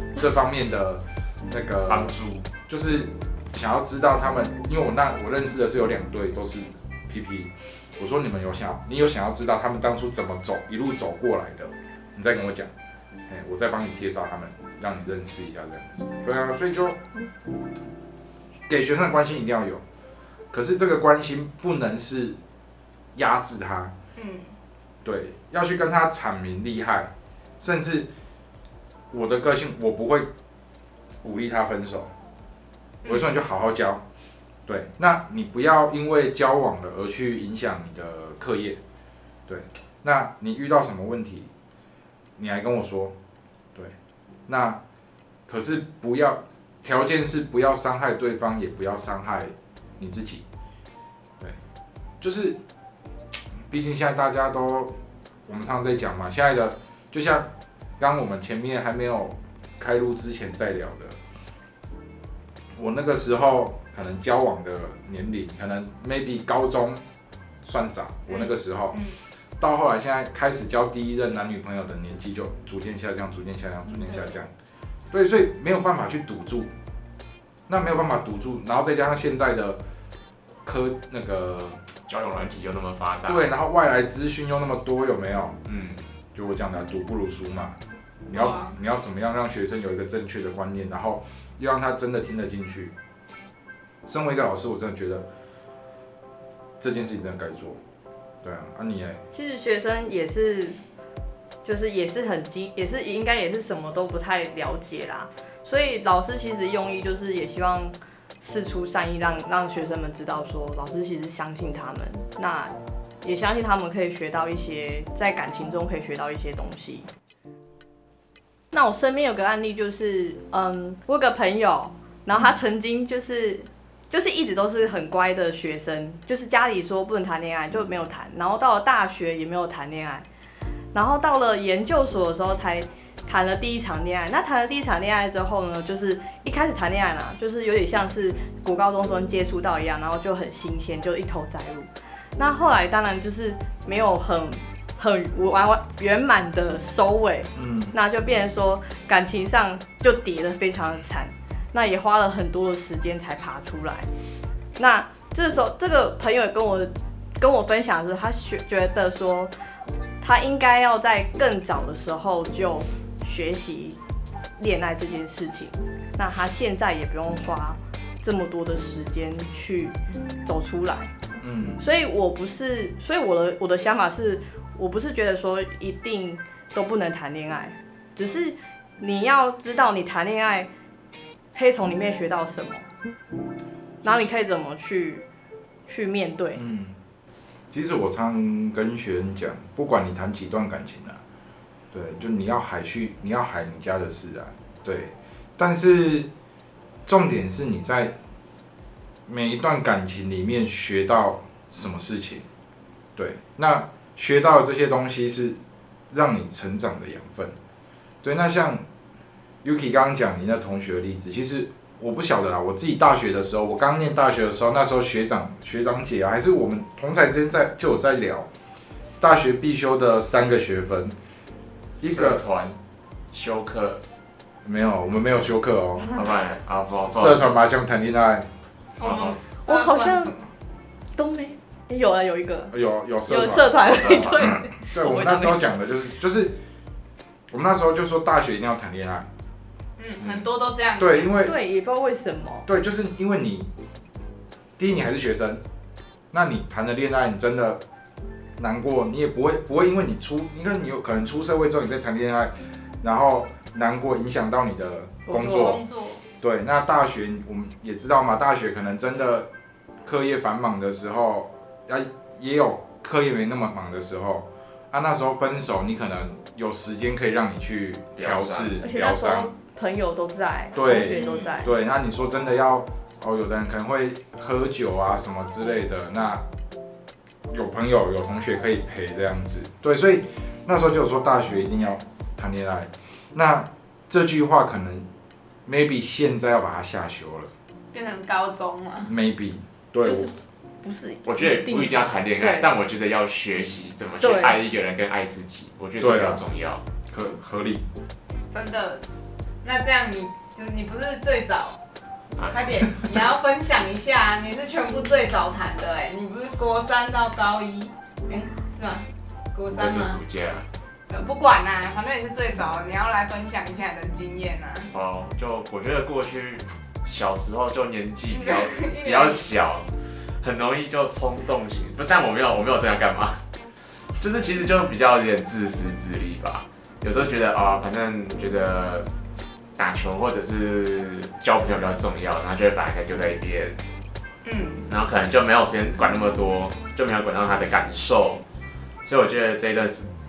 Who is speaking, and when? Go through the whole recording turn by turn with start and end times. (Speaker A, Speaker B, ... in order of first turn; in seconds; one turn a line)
Speaker A: 0.1-2.1
Speaker B: 1.9-2.5
Speaker A: 2.7-12.7
Speaker A: 13.3-17.0
Speaker A: 18.7-19.8
Speaker A: 20.5-22.4
Speaker A: 23.1-23.9
Speaker C: 24.1-24.5
Speaker A: 25.0-28.1
Speaker A: 29.1-30.3
Speaker A: 31.2-32.1
Speaker C: 33.0-33.3
Speaker A: 33.0-34.0
Speaker A: 34.6-38.8
Speaker A: 39.5-41.5
Speaker A: 42.4-43.1
Speaker A: 44.5-44.8
Speaker A: 45.5-50.4
Speaker A: 52.2-52.6
Speaker A: 53.7-54.9
Speaker A: 55.5-61.2
Speaker A: 62.8-67.0
Speaker A: 67.6-69.0
Speaker C: 68.3-69.2
Speaker A: 69.6-74.5
Speaker A: 75.1-76.7
Speaker A: 77.7-79.8
Speaker A: 80.6-81.8
Speaker B: 82.1-83.5
Speaker A: 83.2-85.5
Speaker B: 85.7-86.0
Speaker A: 86.3-92.9
Speaker C: 88.3-88.7
Speaker A: 94.0-95.3
Speaker A: 96.8-97.8
Speaker A: 98.4-99.2
Speaker D: 99.3-100.8
Speaker D: 101.6-117.1
Speaker D: 118.7-130.2
Speaker D: 130.9-154.1
Speaker A: 147.5-147.9
Speaker D: 154.8-159.5
Speaker D: 160.2-164.0
Speaker D: 164.6-171.1
Speaker A: 171.4-171.8
Speaker D: 171.8-180.7
Speaker D: 181.5-182.9
Speaker D: 184.0-185.2
Speaker D: 185.9-186.6
Speaker A: 186.6-186.9
Speaker A: 187.7-191.2
Speaker A: 191.9-196.3
Speaker A: 197.1-198.1
Speaker A: 199.3-202.5
Speaker A: 203.2-205.6
Speaker A: 206.1-207.5
Speaker A: 208.2-208.8
Speaker A: 209.6-218.5
Speaker A: 219.2-221.2
Speaker A: 222.0-222.4
Speaker B: 222.0-222.8
Speaker B: 223.3-224.0
Speaker A: 224.6-226.2
Speaker B: 226.0-227.5
Speaker A: 227.1-228.5
Speaker C: 229.0-230.5
Speaker B: 229.0-229.4
Speaker D: 229.7-230.3
Speaker D: 231.2-235.6
Speaker A: 232.7-236.6
Speaker B: 234.0-234.4
Speaker A: 237.5-239.3
Speaker C: 240.0-241.4
Speaker A: 241.0-241.5
Speaker D: 241.4-242.7
Speaker A: 242.7-243.7
Speaker A: 244.8-245.6
Speaker A: 246.3-247.8
Speaker A: 248.6-255.8
Speaker D: 255.3-255.8
Speaker C: 255.3-256.2
Speaker A: 256.4-259.5
Speaker A: 260.0-269.5
Speaker B: 268.1-268.8
Speaker D: 268.8-271.7
Speaker A: 270.7-276.4
Speaker C: 271.1-271.6
Speaker A: 277.5-285.1
Speaker A: 285.6-287.5
Speaker C: 287.9-289.1
Speaker A: 289.1-290.3
Speaker D: 290.0-292.7
Speaker B: 291.2-296.8
Speaker D: 294.2-294.6
Speaker A: 296.0-296.4
Speaker A: 297.1-297.8
Speaker C: 298.5-299.0
Speaker C: 299.6-301.8
Speaker B: 302.4-302.9
Speaker C: 302.5-310.2
Speaker B: 309.8-310.7
Speaker C: 311.1-314.9
Speaker B: 314.9-323.4
Speaker C: 318.3-319.4
Speaker B: 324.2-329.1
Speaker B: 329.7-333.8
Speaker C: 334.4-334.8
Speaker B: 334.9-338.4
Speaker B: 339.0-340.1